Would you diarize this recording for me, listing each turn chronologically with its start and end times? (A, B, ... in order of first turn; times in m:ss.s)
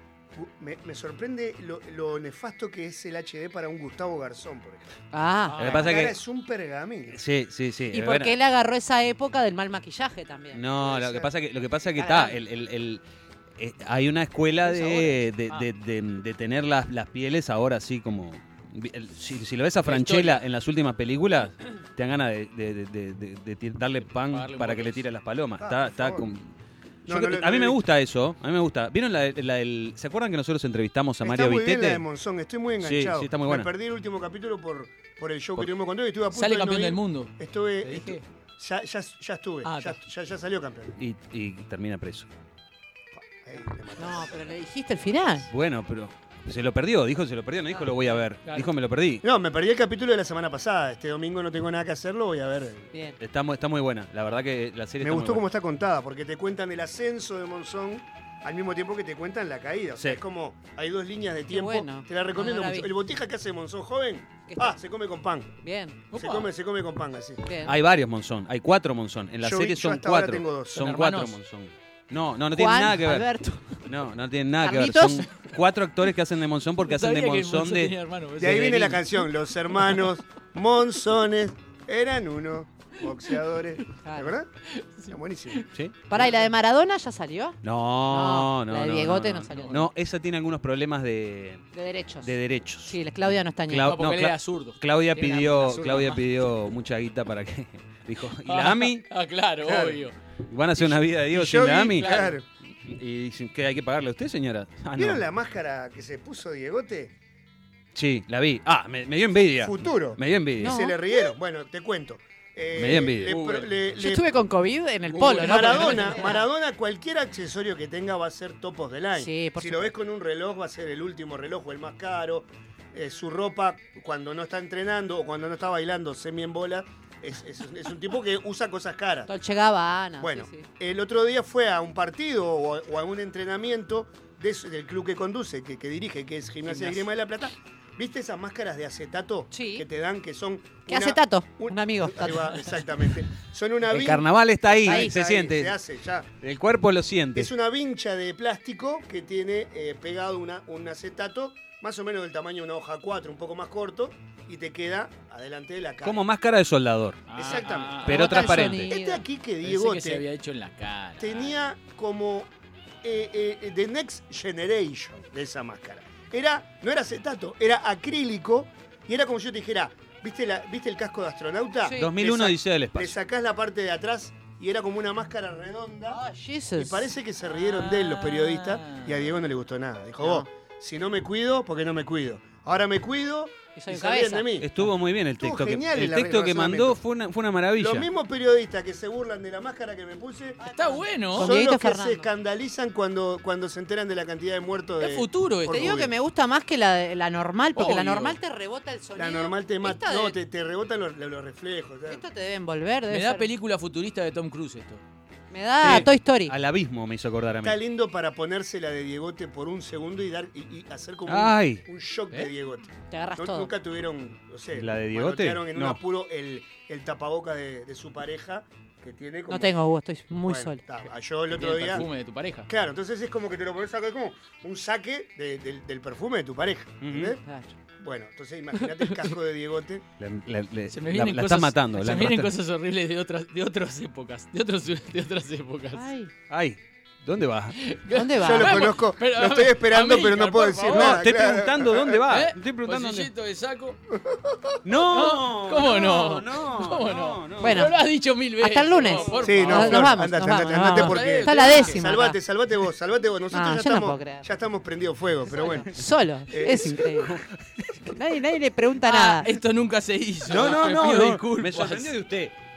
0:00.4-0:04.8 A
0:05.1-0:05.6 B
0:05.5-0:06.0 C
0:05.6-0:06.1 D
0:05.7-0:07.2 A
0:07.1-0:08.3 D
0:07.9-0:10.6 B
0:10.5-0:13.0 D
0:10.8-0:11.3 A
0:12.0-0:12.4 B
0:13.6-0:26.5 D
0:14.7-0:15.1 B
0:19.8-0:20.4 C
0:24.3-0:25.0 C
0:25.6-0:26.3 A
0:27.1-0:27.8 A
0:27.1-0:32.0 D
0:31.2-0:41.0 A
0:32.8-0:33.7 D
0:36.3-0:37.3 C
0:37.8-0:38.2 C
0:39.6-0:40.0 C
0:41.0-0:42.3 D
0:43.1-0:44.4 A
0:44.0-0:45.5 B
0:45.5-0:49.2 D
0:47.7-0:48.1 B
0:49.2-0:52.9 A
0:52.9-0:53.2 B
0:53.2-0:55.4 D
0:55.0-1:05.6 A
1:01.5-1:02.9 B
1:04.5-1:04.8 B
1:05.6-1:06.0 B
1:06.1-1:06.5 C
1:06.1-1:07.5 A
1:07.5-1:07.7 B
1:07.6-1:13.3 D
1:09.4-1:10.9 A
1:10.8-1:11.4 C
1:12.5-1:13.8 B
1:13.9-1:17.9 D
1:14.6-1:15.3 B
1:16.8-1:19.2 C
1:18.4-1:24.5 A
1:24.0-1:24.3 B
1:24.8-1:25.6 C
1:25.1-1:26.4 A
1:26.1-1:29.9 B
1:27.6-1:31.6 D
1:29.6-1:29.8 C
1:31.7-1:32.3 B
1:32.2-1:33.0 D
1:32.9-1:33.9 B
1:33.7-1:39.0 D
1:33.8-1:36.5 C
1:38.5-1:40.2 C
1:39.6-1:40.0 A
1:40.5-1:42.3 D
1:41.3-1:42.4 A
1:41.6-1:42.4 C
1:42.9-1:45.2 D
1:45.0-1:47.1 A
1:48.0-1:50.8 D
1:49.6-1:54.3 A
1:50.6-1:51.3 B
1:52.8-1:53.4 D
1:53.2-1:53.9 C
1:54.0-1:56.4 B
1:55.1-1:56.3 C
1:55.2-2:09.3 A
1:59.2-1:59.9 B
2:09.3-2:10.7 B
2:10.2-2:26.3 A
2:16.7-2:17.0 C
2:19.5-2:19.9 B
2:20.9-2:22.5 B
2:23.9-2:25.8 D
2:24.8-2:25.1 B
2:26.4-2:27.5 D
2:27.4-2:36.2 A
2:36.0-2:37.3 D
2:37.3-2:38.8 C
2:37.4-2:40.2 A
2:38.0-2:38.9 D
2:38.0-2:39.2 B
2:39.6-2:41.5 C
2:41.2-2:42.5 A
2:43.0-2:56.2 A
2:51.8-2:52.1 B
2:52.0-2:53.2 D
2:56.1-2:57.1 B
2:56.8-3:04.7 A
2:57.5-2:59.2 C
3:00.2-3:00.5 B
3:03.8-3:04.5 B
3:04.6-3:08.1 D
3:05.4-3:07.0 A
3:07.8-3:10.6 A
3:10.6-3:12.3 B
3:10.7-3:11.5 C
3:11.3-3:16.1 A
3:15.0-3:16.0 C
3:15.7-3:20.4 B
3:17.8-3:18.4 C
3:19.2-3:22.2 A
3:22.1-3:23.5 B
3:23.1-3:25.0 C
3:25.5-3:26.5 B
3:25.8-3:27.8 D
3:27.6-3:39.8 A
3:31.3-3:31.8 D
3:33.1-3:33.7 B
3:34.8-3:36.0 D
3:39.5-3:40.8 B
3:40.4-3:42.1 A
3:41.5-3:42.7 C
3:42.7-3:47.4 A
3:47.0-3:47.4 D
3:47.4-3:47.7 B
3:48.0-3:50.0 A
3:50.2-3:52.5 D
3:50.9-3:56.1 C
3:55.9-3:56.3 B
3:56.5-3:57.8 D
3:57.8-4:01.2 C
3:58.1-3:58.8 B
3:58.4-4:02.2 A
4:00.9-4:03.3 D
4:02.3-4:04.0 C
4:04.8-4:07.9 D
4:05.1-4:10.2 C
4:07.6-4:08.0 B
4:08.6-4:12.4 B
4:09.4-4:15.9 A
4:10.8-4:12.0 C
4:13.5-4:14.4 B
4:15.5-4:17.3 B
4:16.5-4:17.3 A
4:17.2-4:17.9 D
4:18.1-4:19.5 B
4:19.1-4:22.1 C
4:20.5-4:22.6 D